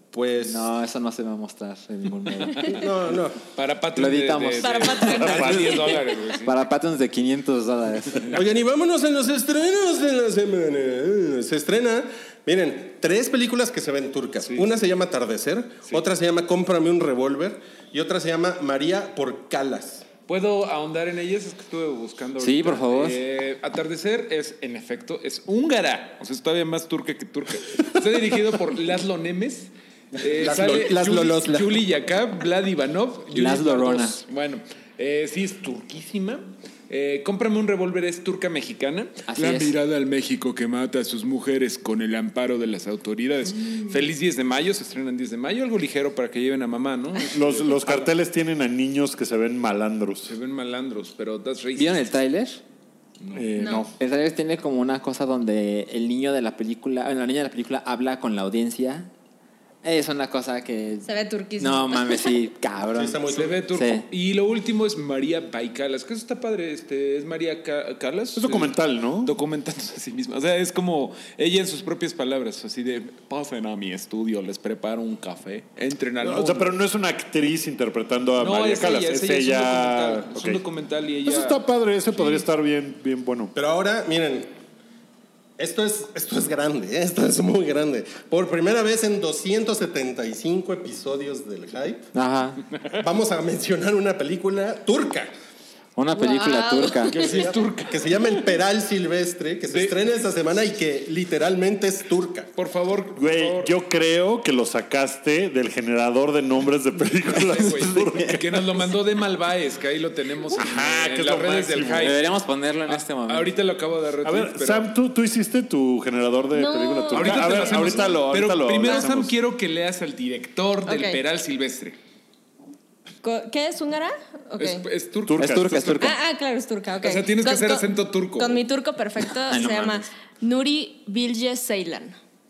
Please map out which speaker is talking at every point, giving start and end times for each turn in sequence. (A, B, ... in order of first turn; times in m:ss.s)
0:00.1-0:00.7 A
0:00.4-0:02.8 B
0:02.6-0:03.4 A
0:03.5-0:06.6 C
0:03.9-0:05.5 B
0:04.6-0:06.2 D
0:05.2-0:05.7 E
0:06.4-0:08.4 B
0:08.3-0:20.0 A
0:20.3-0:48.1 C
0:22.4-0:23.2 B
0:30.3-0:31.8 A
0:33.3-0:34.2 B
0:39.3-0:39.7 B
0:47.3-0:50.3 E
0:50.3-0:52.0 C
0:51.8-0:52.6 B
0:53.2-0:53.8 C
0:53.3-0:53.9 E
0:53.6-0:53.9 D
0:54.0-0:59.1 B
0:59.8-1:01.1 B
1:01.0-1:02.4 D
1:01.6-1:03.2 B
1:02.9-1:03.6 A
1:03.3-1:16.7 C
1:03.7-1:04.0 B
1:08.4-1:09.3 E
1:16.2-1:20.6 E
1:18.4-1:21.6 C
1:21.2-1:23.5 E
1:23.5-1:24.5 A
1:25.6-1:32.0 A
1:32.1-1:32.6 B
1:33.0-1:35.3 A
1:36.0-1:37.2 B
1:36.1-1:37.2 D
1:37.1-1:38.4 C
1:37.2-1:42.5 A
1:39.7-1:40.0 C
1:42.6-1:43.7 C
1:43.2-1:48.7 E
1:47.2-1:52.2 C
1:50.5-1:52.2 E
1:52.0-1:53.5 B
1:52.9-1:54.9 C
1:54.2-1:59.3 E
1:56.5-1:58.2 D
1:57.1-2:02.0 C
2:00.8-2:01.2 D
2:03.2-2:04.8 D
2:04.6-2:06.1 C
2:05.2-2:06.1 E
2:05.4-2:06.1 B
2:06.0-2:12.2 D
2:07.0-2:08.6 C
2:09.5-2:10.1 B